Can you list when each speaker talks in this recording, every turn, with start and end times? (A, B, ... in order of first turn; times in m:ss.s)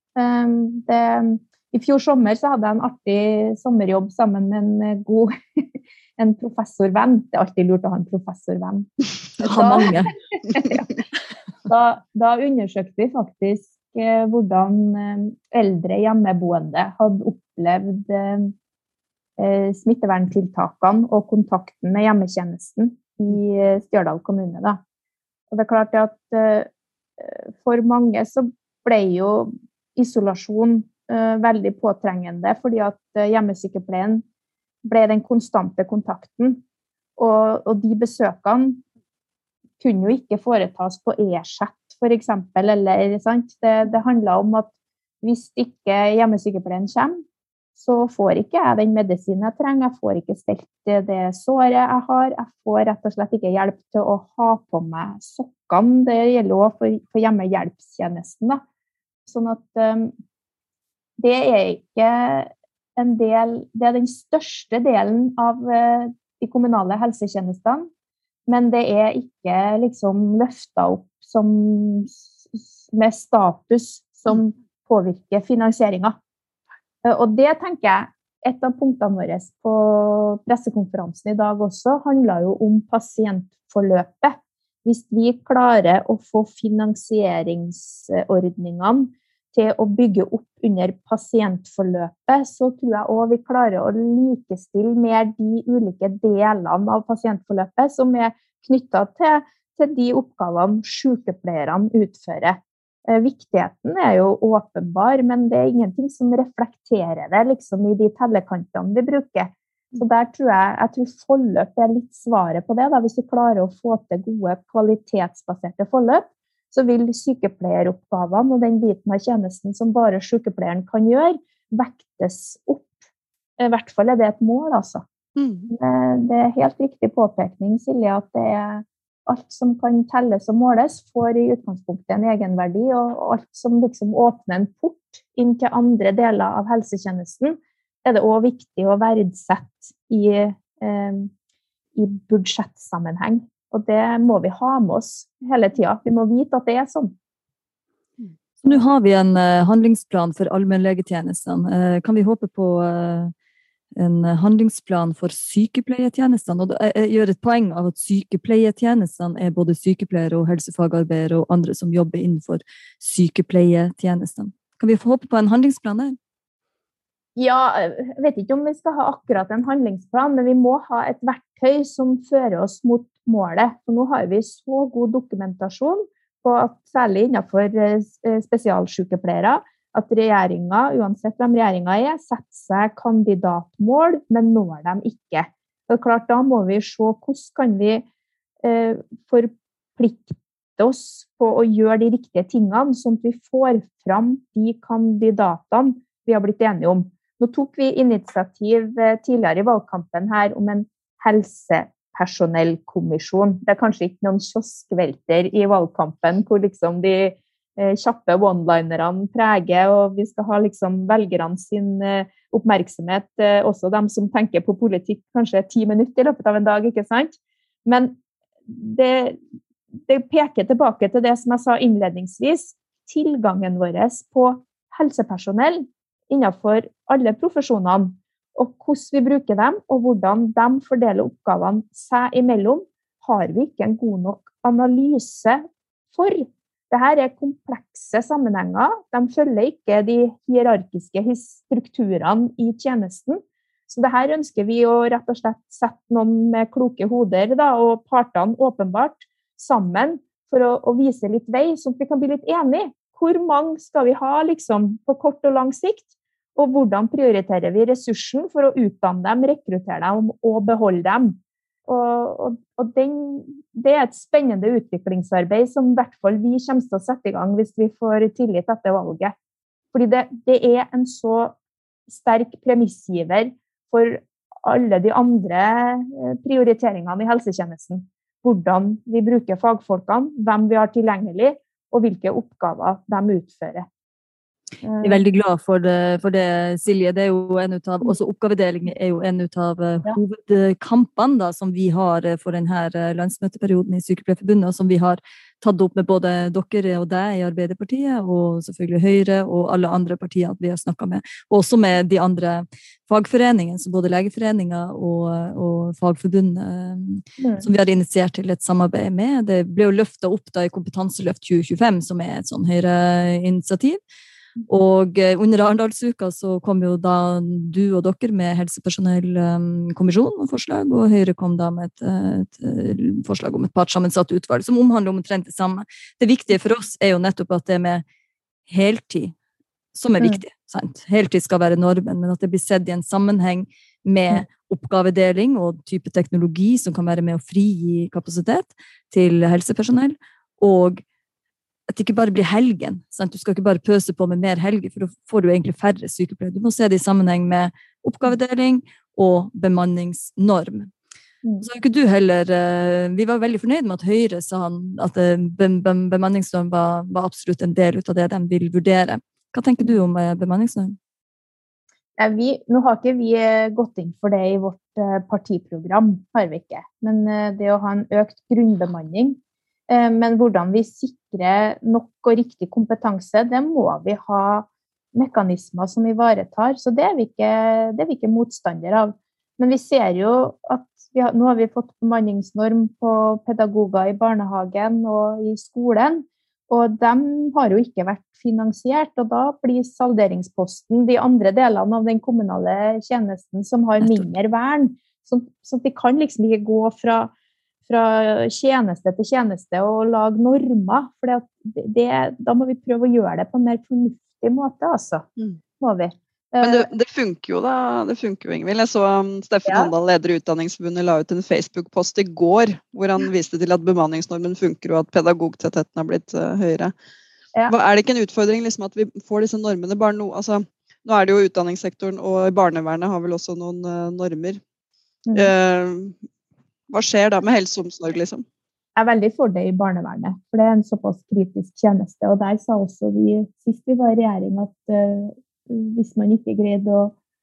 0:00.2-0:05.6 A
0:06.2-0:11.0 A
0:09.4-0:10.1 B
0:11.6-0:18.5 A
0:19.4-0:24.8 A
0:25.5-0:34.2 A
0:34.8-0:36.6 A
0:37.2-0:38.8 A
0:39.8-0:47.2 A
0:47.8-0:58.6 A
0:59.2-1:00.1 A
1:01.2-1:07.9 A
1:08.5-1:16.2 A
1:17.0-2:02.9 A
2:03.6-2:05.0 A
2:05.4-2:05.7 C
2:05.7-2:21.3 A
2:22.0-2:27.1 A
2:28.6-2:33.3 B
2:34.0-2:46.2 B
2:47.4-3:08.0 A
3:08.6-3:39.4 A
3:40.1-4:29.3 A
4:29.9-4:31.5 A
4:32.1-4:43.9 A
4:44.8-4:45.2 A
4:45.0-5:14.0 B
5:07.4-5:07.6 A
5:14.7-5:28.0 B
5:28.7-5:29.4 B
5:29.9-5:41.0 B
5:41.9-5:50.9 B
5:51.6-6:01.0 B
6:02.2-6:37.3 A
6:34.0-6:34.2 B
6:37.8-6:45.2 A
6:45.8-6:46.9 A
6:46.6-6:56.9 C
6:49.6-6:49.9 A
6:57.7-7:04.6 C
7:05.3-7:05.5 A
7:05.3-7:06.2 C
7:06.9-7:08.4 C
7:09.0-7:17.1 A